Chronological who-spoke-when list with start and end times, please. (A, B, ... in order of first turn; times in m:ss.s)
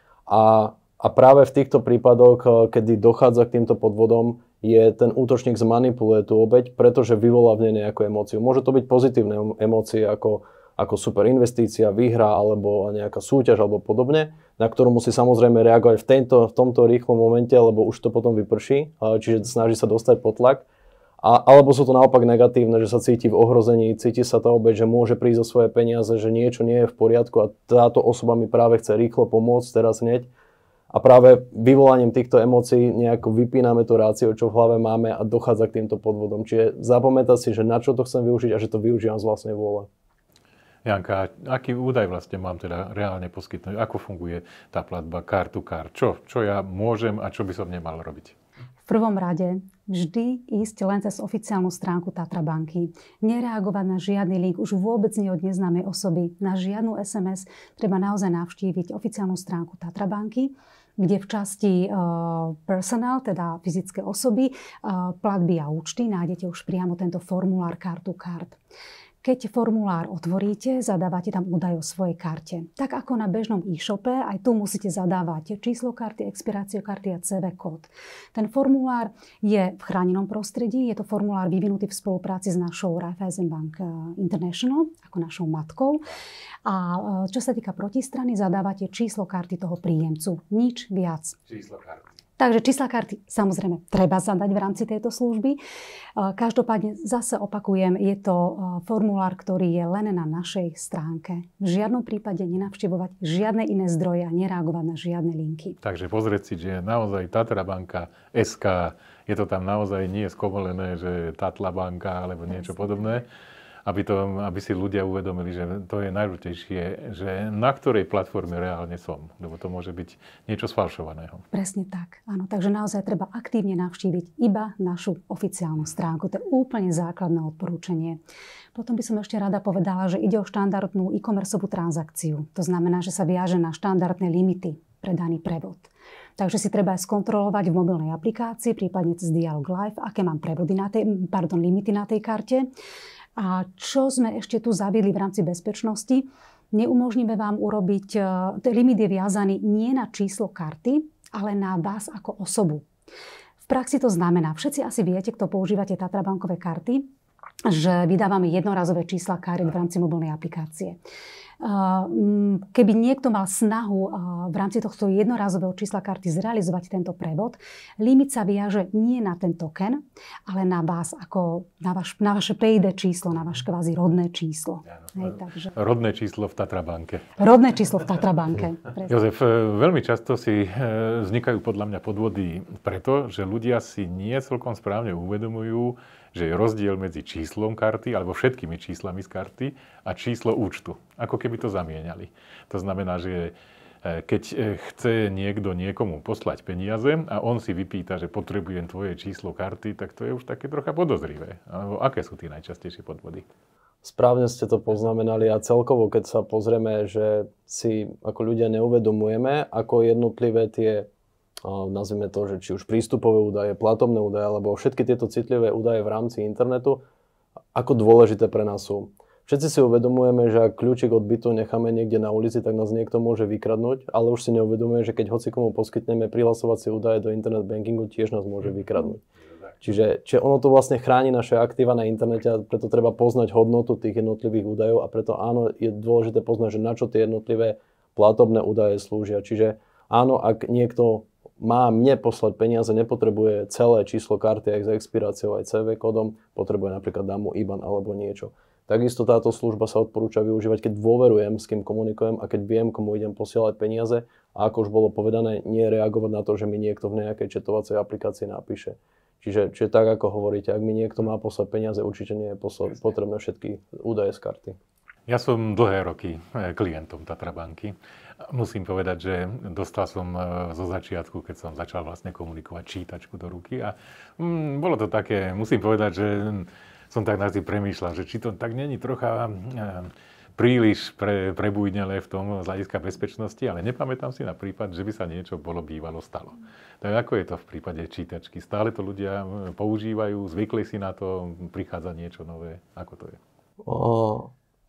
0:00.3-0:20.7 A
0:21.2-0:30.3 A
0:30.9-0:39.9 A
0:40.8-0:48.4 B
0:48.9-1:08.6 C
1:09.2-1:26.1 C
1:26.6-1:31.4 C
1:31.5-1:32.0 B
1:32.4-1:35.6 C
1:36.2-1:45.8 C
1:45.8-1:53.2 B
1:53.8-2:01.4 B
2:01.5-2:08.2 C
2:08.8-2:22.7 C
2:23.4-2:32.8 C
2:33.7-2:37.1 C
2:37.6-2:41.0 C
2:41.6-2:55.7 C
2:55.1-2:57.3 B
2:57.4-2:59.2 C
2:59.0-3:23.4 B
3:24.0-3:31.1 A
3:31.6-3:37.0 A
3:37.7-3:49.2 A
3:49.8-4:24.8 A
4:25.3-4:53.4 B
4:53.8-4:54.5 A